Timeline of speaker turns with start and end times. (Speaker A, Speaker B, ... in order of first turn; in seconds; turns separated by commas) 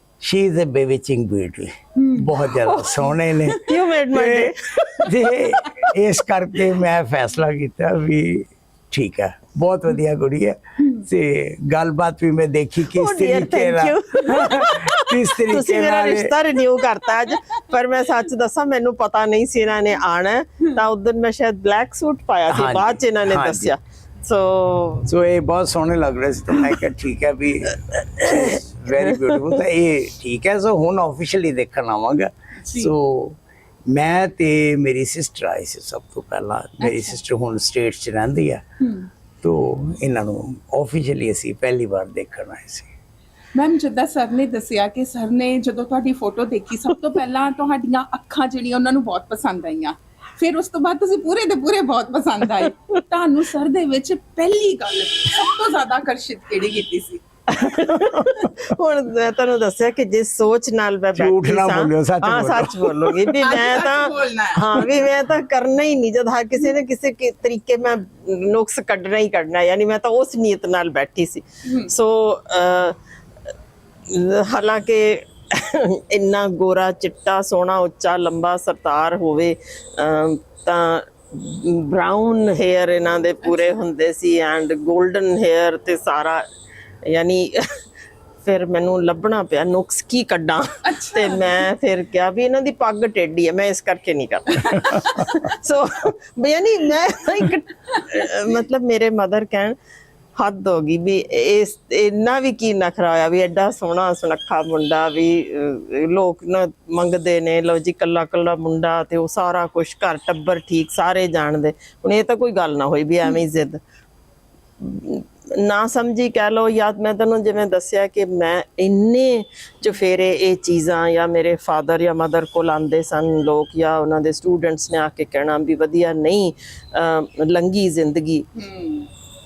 Speaker A: 0.2-16.3, Speaker B: 2.0-3.5, Speaker C: 3.5-5.2, Speaker C: 12.9-25.1, Speaker A: 22.5-23.7, Speaker A: 25.1-33.4, Speaker C: 28.2-29.6, Speaker B: 32.7-32.9, Speaker A: 33.9-38.6, Speaker B: 36.8-37.2, Speaker B: 38.8-39.1, Speaker A: 39.4-42.9, Speaker B: 43.5-57.2, Speaker C: 57.5-73.0, Speaker A: 57.8-58.4, Speaker A: 61.1-63.6, Speaker B: 63.4-64.9, Speaker B: 71.7-71.9, Speaker C: 74.1-86.4, Speaker B: 83.4-83.8, Speaker C: 87.1-87.7, Speaker C: 88.4-99.8, Speaker B: 90.8-91.7, Speaker C: 100.4-113.8, Speaker C: 114.8-128.4, Speaker B: 128.6-129.1